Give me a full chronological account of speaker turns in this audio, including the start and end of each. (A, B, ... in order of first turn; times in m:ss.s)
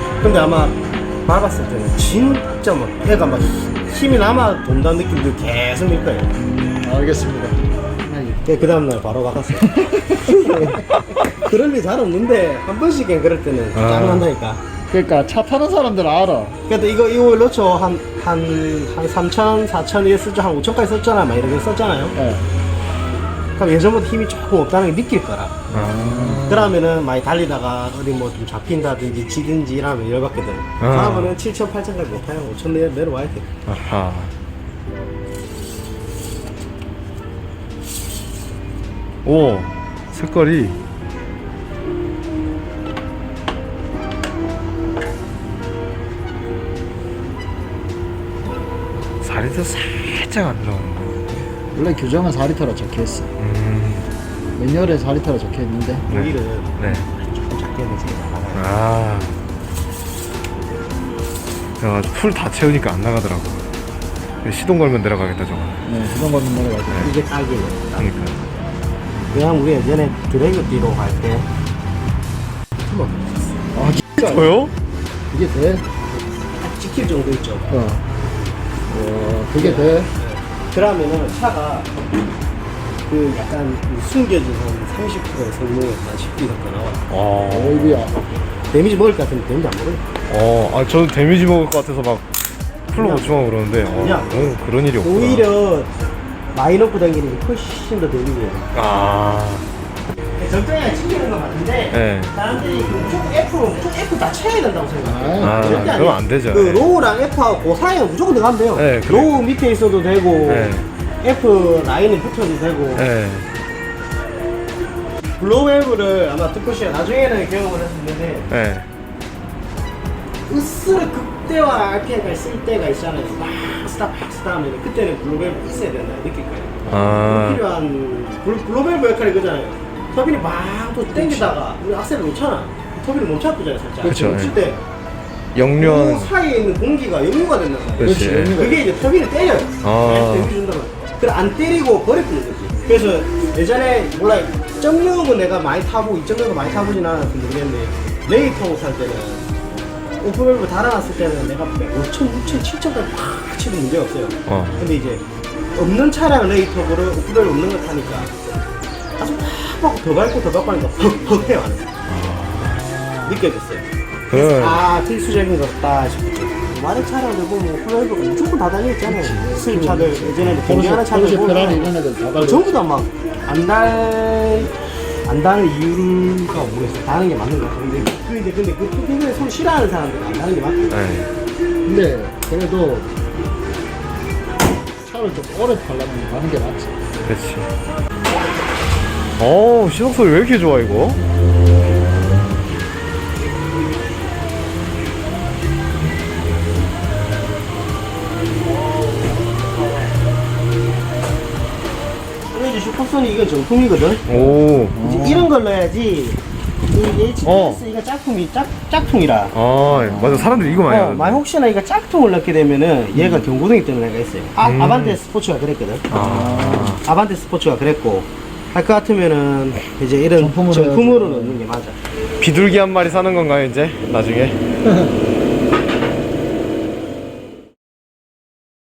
0:00.2-0:06.3 A
0:06.3-0:08.4 B
0:08.4-0:14.6 A
0:09.6-0:10.8 B
0:13.7-0:14.3 C
0:14.9-0:16.6 B
0:16.7-0:22.2 A
0:22.2-0:22.4 B
0:23.6-0:25.5 A
0:25.7-0:26.5 C
0:25.7-0:26.7 B
0:26.5-0:33.5 A
0:30.8-0:31.3 C
0:33.6-0:34.3 C
0:39.2-0:40.8 C
0:49.2-0:51.5 C
0:51.7-0:53.3 B
0:53.4-0:54.1 C
0:54.6-0:56.1 B
0:56.1-0:58.8 A
0:56.1-0:57.0 C
0:58.5-0:59.4 C
1:01.8-1:03.6 C
1:04.4-1:05.8 C
1:05.9-1:07.1 B
1:07.0-1:08.1 A
1:08.0-1:08.4 C
1:09.3-1:11.5 A
1:12.8-1:13.4 A
1:13.8-1:14.0 B
1:14.2-1:14.7 C
1:15.3-1:15.8 B
1:16.6-1:17.7 A
1:17.7-1:18.0 B
1:18.9-1:20.1 B
1:19.5-1:21.9 A
1:23.1-1:27.0 A
1:27.1-1:28.0 C
1:27.5-1:28.2 B
1:28.7-1:30.0 A
1:30.3-1:32.2 C
1:32.9-1:35.5 C
1:32.9-1:35.9 A
1:36.5-1:38.7 A
1:38.7-1:39.6 C
1:40.4-1:53.1 A
1:41.9-1:42.3 C
1:45.0-1:46.0 B
1:45.4-1:46.9 C
1:48.8-1:49.3 C
1:50.5-1:50.9 C
1:53.0-1:53.5 C
1:55.4-1:58.5 A
1:58.5-1:58.9 C
2:00.5-2:14.8 A
2:06.9-2:07.6 C
2:11.1-2:11.6 B
2:14.0-2:14.5 C
2:14.1-2:14.4 B
2:15.5-2:16.3 C
2:15.6-2:29.6 A
2:18.0-2:18.6 C
2:18.0-2:18.9 B
2:19.8-2:20.5 C
2:30.2-2:35.2 A
2:34.5-2:34.9 C
2:35.8-2:38.4 A
2:39.2-2:41.9 A
2:42.1-2:43.1 C
2:43.2-2:54.7 A
2:44.3-2:44.8 C
2:49.0-2:52.8 B
2:55.2-3:01.0 A
3:00.9-3:01.3 C
3:01.8-3:03.1 B
3:05.0-3:06.9 B
3:07.2-3:07.7 C
3:09.4-3:11.2 C
3:22.5-3:29.5 A
3:24.3-3:25.0 C
3:24.9-3:25.5 B
3:27.4-3:27.8 C
3:29.5-3:31.4 C
3:29.9-3:30.7 B
3:30.9-3:36.1 A
3:33.1-3:33.5 B
3:34.6-3:35.2 C
3:36.1-3:37.0 B
3:36.1-3:37.0 C
3:37.0-3:42.0 A
3:40.4-3:41.6 B
3:42.4-3:44.6 C
3:44.8-3:45.1 B